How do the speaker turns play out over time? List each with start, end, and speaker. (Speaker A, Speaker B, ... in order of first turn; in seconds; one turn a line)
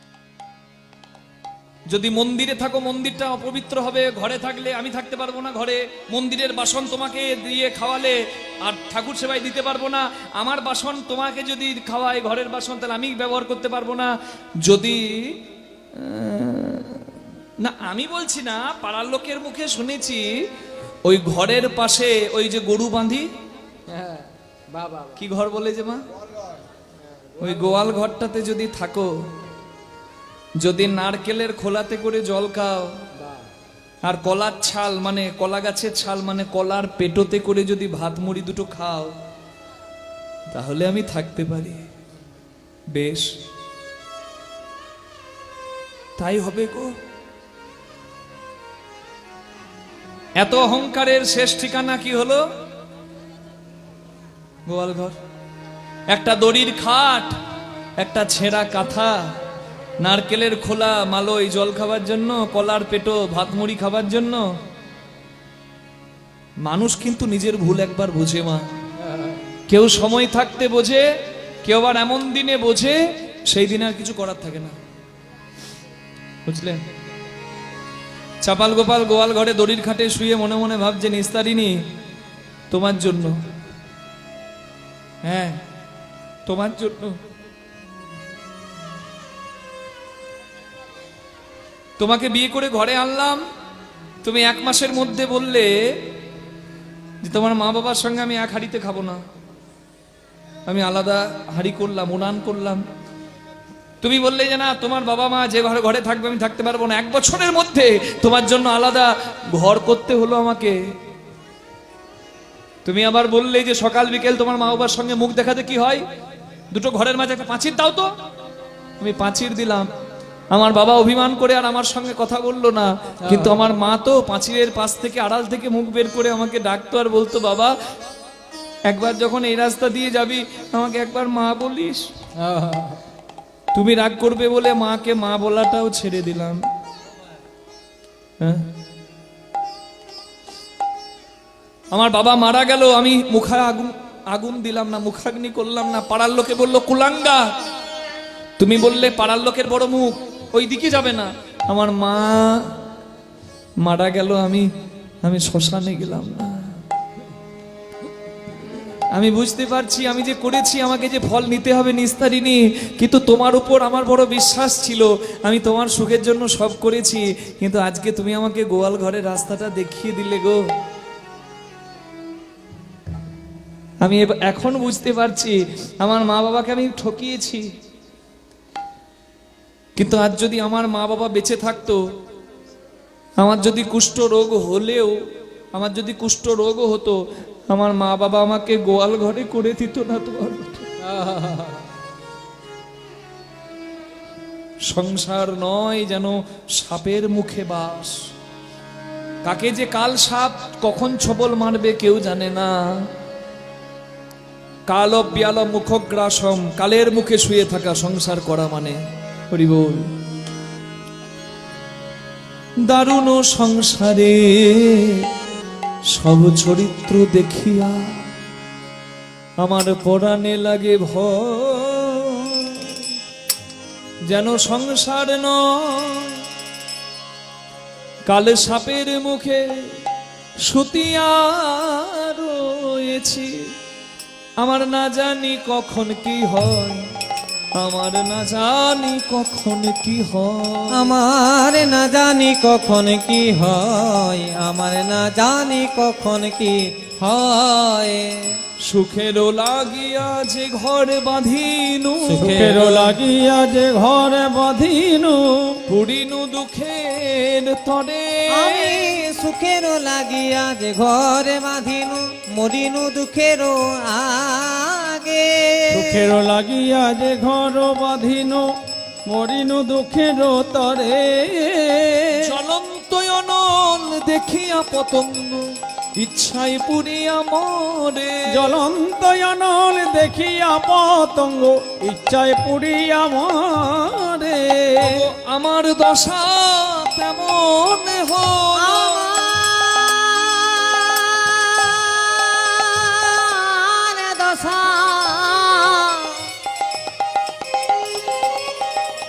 Speaker A: 1.9-14.1
Speaker A: 14.6-15.4
Speaker A: 15.9-17.0
Speaker A: 17.6-20.3
Speaker A: 21.0-23.3
Speaker A: 25.1-26.0
Speaker A: 27.4-29.1
Speaker A: 30.6-32.9
Speaker A: 34.0-39.1
Speaker A: 40.5-41.8
Speaker A: 42.9-43.3
Speaker A: 46.2-46.9
Speaker A: 50.4-52.4
Speaker A: 54.6-55.1
Speaker A: 56.1-57.3
Speaker A: 58.0-59.2
Speaker A: 60.0-64.4
Speaker A: 66.6-68.6
Speaker A: 69.7-71.1
Speaker A: 71.6-74.8
Speaker A: 76.5-76.8
Speaker A: 78.4-81.8
Speaker A: 82.7-83.3
Speaker A: 85.2-85.6
Speaker A: 86.5-87.2
Speaker A: 92.0-93.4
Speaker A: 94.2-95.7
Speaker A: 97.2-99.2
Speaker A: 100.7-102.8
Speaker A: 104.0-110.8
Speaker A: 112.8-116.0
Speaker A: 116.7-118.1
Speaker A: 119.0-119.9
Speaker A: 120.5-127.7
Speaker A: 128.9-132.1
Speaker B: 132.4-132.9
Speaker A: 133.7-136.6
Speaker A: 138.4-138.7
Speaker A: 141.9-147.5
Speaker A: 148.6-152.8
Speaker A: 153.8-154.7
Speaker A: 155.2-156.8
Speaker A: 159.1-170.6
Speaker A: 174.0-177.7
Speaker A: 179.9-182.0
Speaker A: 183.4-185.2
Speaker A: 185.7-190.9
Speaker A: 194.8-198.2
Speaker A: 199.4-202.8
Speaker A: 204.9-209.0
Speaker A: 209.5-210.1
Speaker A: 212.8-215.2
Speaker A: 216.1-218.2
Speaker A: 219.6-222.9
Speaker A: 224.3-226.4
Speaker A: 228.3-229.7
Speaker A: 230.6-233.6
Speaker A: 234.6-237.0
Speaker A: 237.8-241.0
Speaker B: 240.9-248.6
Speaker A: 248.8-252.7
Speaker B: 252.2-253.2
Speaker C: 252.3-255.8
Speaker A: 255.9-259.2
Speaker B: 258.5-266.3
Speaker C: 265.9-268.7
Speaker C: 269.2-272.4
Speaker A: 272.3-278.7
Speaker C: 278.5-285.2
Speaker A: 285.0-289.6
Speaker B: 288.7-296.5